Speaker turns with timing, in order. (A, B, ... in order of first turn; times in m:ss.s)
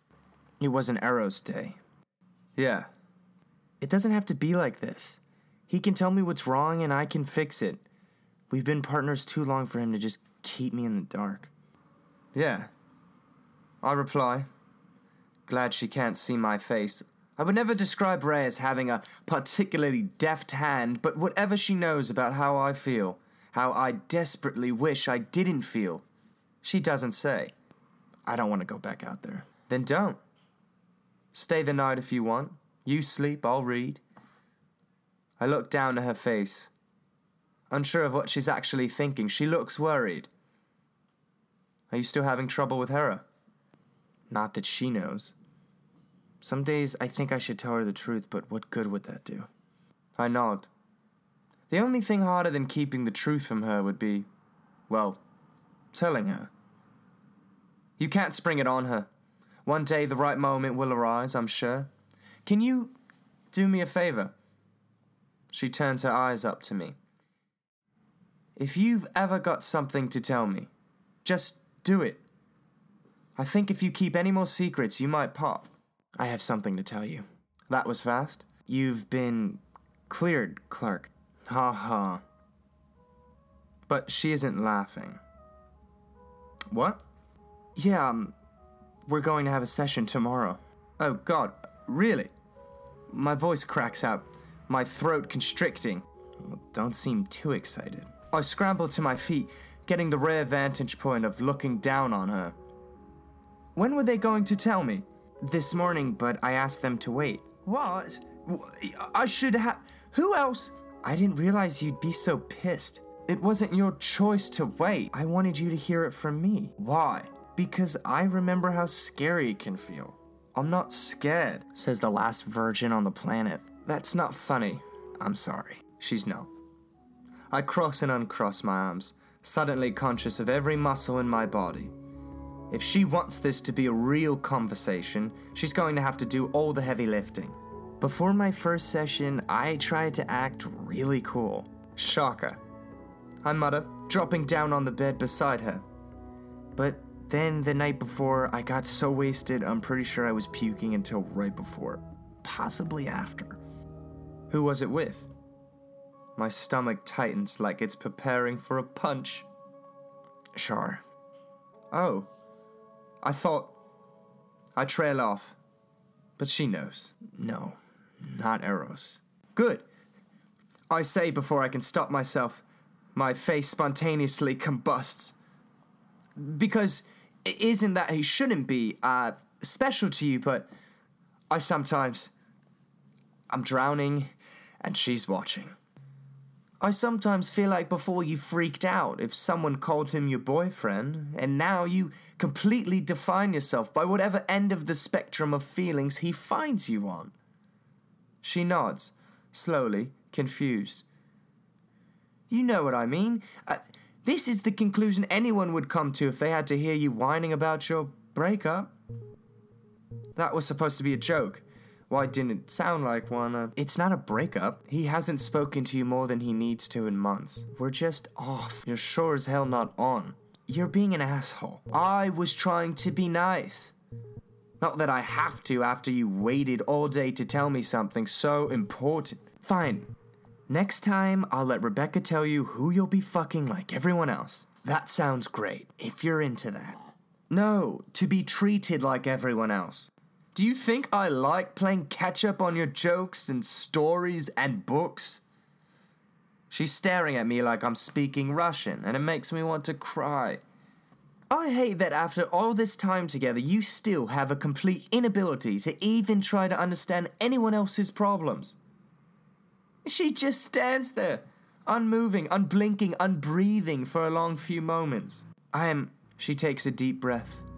0:00.6-0:01.8 A
0:02.6-0:02.9 A
0:03.8-0:07.8 A
0:08.5-0:11.5 A
0:12.3-0:12.7 A
0:13.8-0:14.5 A
0:15.5-0:26.0 A
0:26.6-0:27.5 A
0:28.3-0:30.2 A
0:31.3-0:34.0 A
0:35.4-0:36.7 A
0:37.7-0:40.3 A
0:41.9-0:43.2 A
0:44.3-0:45.3 A
0:46.4-0:49.5 A
0:50.2-0:50.7 A
0:51.7-0:54.3 A
0:54.9-0:55.2 A
0:55.9-0:56.5 A
0:58.0-0:59.1 A
0:59.6-1:01.9 A
1:02.5-1:03.0 A
1:03.5-1:04.3 A
1:05.5-1:07.0 A
1:08.6-1:10.7 A
1:11.2-1:12.2 A
1:13.4-1:22.2 A
1:23.9-1:25.2 A
1:26.7-1:27.0 A
1:27.8-1:28.3 A
1:29.1-1:32.3 A
1:33.1-1:42.6 A
1:43.8-2:06.5 A
2:07.5-2:11.9 A
2:12.7-2:22.6 A
2:23.4-2:25.8 A
2:26.8-2:33.6 A
2:34.5-2:35.3 A
2:36.4-2:39.5 A
2:40.6-2:41.0 A
2:41.9-2:42.3 A
2:43.2-2:43.7 A
2:44.8-2:45.6 A
2:46.4-2:49.8 A
2:50.9-2:52.6 A
2:53.2-2:55.3 A
2:56.4-3:00.7 A
3:01.5-3:02.3 A
3:03.5-3:05.8 A
3:06.8-3:17.3 A
3:18.4-3:21.0 A
3:22.5-3:28.9 A
3:30.4-3:43.9 A
3:44.8-3:50.1 A
3:50.7-4:05.4 A
4:06.7-4:10.6 A
4:11.5-4:18.8 A
4:20.0-4:27.6 A